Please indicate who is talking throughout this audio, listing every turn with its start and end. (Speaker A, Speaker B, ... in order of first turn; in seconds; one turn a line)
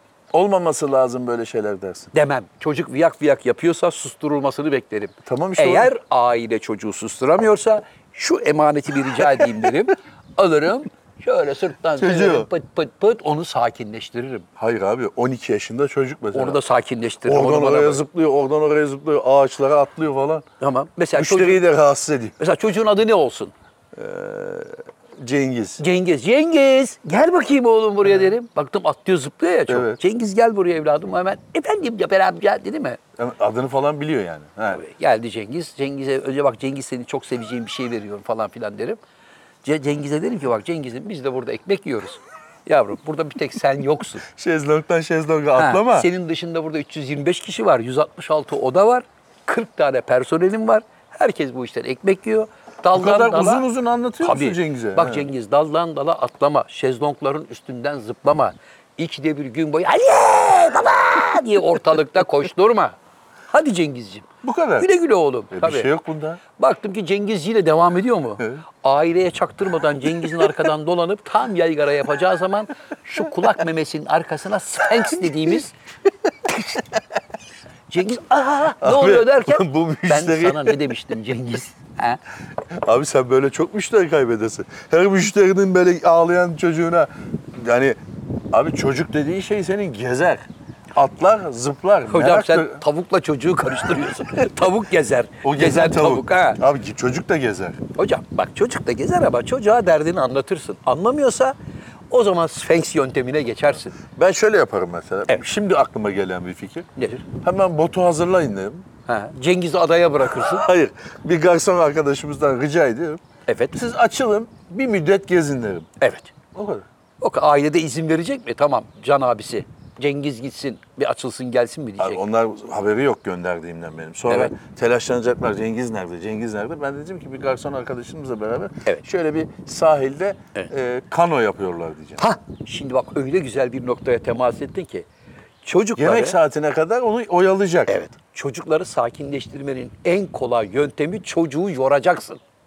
Speaker A: 0.3-2.1
Speaker B: 2.1-14.5
Speaker A: 5.2-5.9
Speaker A: 12.0-12.5
Speaker A: 14.6-16.6
Speaker B: 16.3-18.0
Speaker A: 17.2-20.4
Speaker B: 20.6-21.6
Speaker A: 21.1-22.4
Speaker B: 22.4-23.5
Speaker A: 23.9-25.8
Speaker B: 25.8-33.0
Speaker A: 29.7-30.0
Speaker A: 33.2-34.8
Speaker B: 34.7-39.0
Speaker B: 39.6-44.2
Speaker A: 44.2-46.1
Speaker B: 45.5-53.7
Speaker A: 52.9-55.2
Speaker B: 54.2-63.0
Speaker B: 63.5-65.9
Speaker A: 64.4-64.9
Speaker A: 65.5-66.4
Speaker B: 66.6-75.7
Speaker B: 77.9-82.2
Speaker A: 78.8-80.8
Speaker A: 82.7-88.0
Speaker A: 88.5-92.8
Speaker B: 92.1-96.6
Speaker A: 95.4-97.8
Speaker B: 98.0-101.5
Speaker B: 102.1-104.0
Speaker A: 104.1-108.8
Speaker B: 107.0-107.2
Speaker B: 109.1-110.7
Speaker A: 110.4-113.2
Speaker B: 113.5-113.8
Speaker A: 113.7-115.9
Speaker B: 116.0-116.3
Speaker A: 116.5-116.8
Speaker B: 117.2-122.2
Speaker A: 122.0-132.2
Speaker B: 132.2-135.1
Speaker B: 135.6-136.4
Speaker A: 136.0-138.0
Speaker B: 137.9-142.4